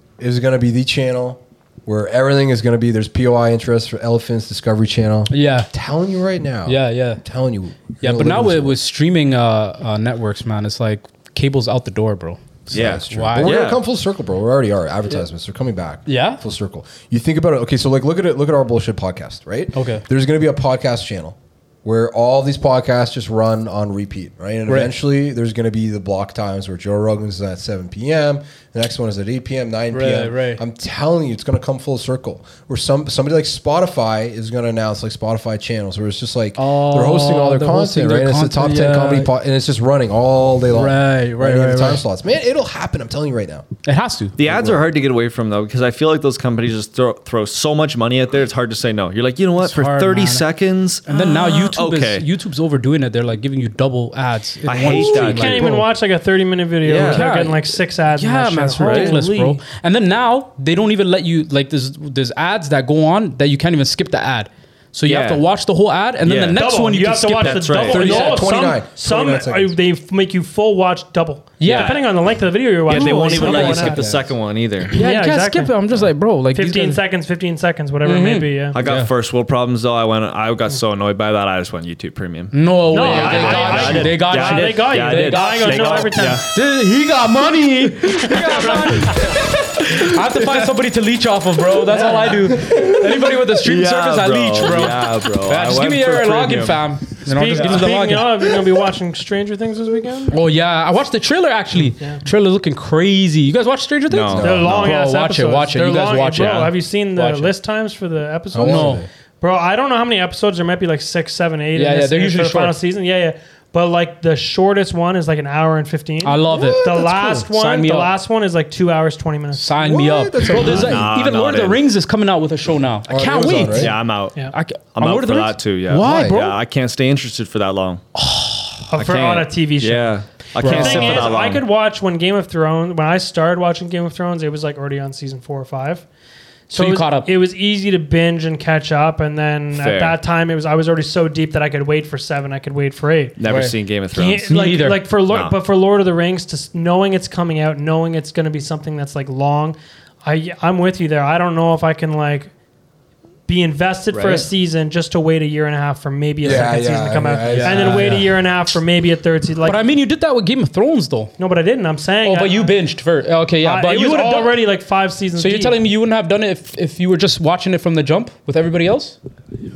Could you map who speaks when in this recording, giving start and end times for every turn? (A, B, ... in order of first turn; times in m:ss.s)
0:00.2-0:08.8 A
0:05.3-0:05.7 B
0:06.7-0:07.2 B
0:08.0-0:13.6 B
0:12.7-0:43.7 A
0:12.7-0:13.8 C
0:16.1-0:16.4 B
0:19.7-0:20.0 B
0:24.7-0:24.9 B
0:29.9-0:30.6 B
0:36.6-0:39.3 B
0:40.7-0:42.0 B
0:43.8-0:44.4 B
0:44.4-0:52.3 C
0:44.4-0:44.9 A
0:49.6-0:50.4 B
0:51.1-0:55.9 B
0:54.7-0:55.7 C
0:54.8-0:59.6 D
0:56.8-0:57.3 C
0:57.0-1:08.4 B
0:58.8-0:59.1 C
1:05.1-1:05.4 C
1:06.2-1:06.7 C
1:06.5-1:14.1 D
1:07.4-1:08.4 C
1:07.9-1:09.7 A
1:11.6-1:12.1 B
1:11.6-1:12.1 C
1:12.9-1:15.0 C
1:12.9-1:14.2 B
1:14.8-1:15.7 D
1:14.9-1:17.0 B
1:16.5-1:18.8 D
1:18.0-1:19.1 B
1:18.7-1:26.4 C
1:22.5-1:38.4 B
1:22.9-1:26.4 D
1:28.2-1:30.7 C
1:28.4-1:29.0 D
1:31.9-1:32.7 D
1:32.7-1:36.9 C
1:37.3-1:40.4 D
1:37.6-1:37.9 C
1:40.3-1:47.5 B
1:44.1-1:44.9 C
1:44.3-1:45.0 A
1:44.4-1:59.7 D
1:48.5-1:49.1 A
1:48.6-1:49.0 B
1:51.7-1:52.7 B
1:56.2-1:58.1 B
1:56.5-1:57.2 A
1:59.6-2:04.0 B
1:59.8-2:01.1 A
2:00.5-2:01.8 C
2:03.1-2:04.0 A
2:03.7-2:08.0 C
2:04.5-2:06.6 B
2:05.9-2:06.4 A
2:08.1-2:08.9 B
2:08.9-2:16.0 D
2:08.9-2:11.7 C
2:10.6-2:11.3 B
2:16.7-2:23.4 D
2:16.7-2:17.3 B
2:19.7-2:20.2 C
2:23.4-2:24.5 C
2:23.4-2:23.7 B
2:24.1-2:32.5 D
2:24.5-2:25.1 B
2:25.3-2:25.6 C
2:33.5-2:39.8 D
2:34.1-2:34.5 C
2:36.4-2:38.3 A
2:37.4-2:38.3 B
2:39.6-2:41.3 B
2:41.4-2:42.8 D
2:42.2-2:44.6 B
2:43.6-2:45.8 D
2:45.4-2:49.2 B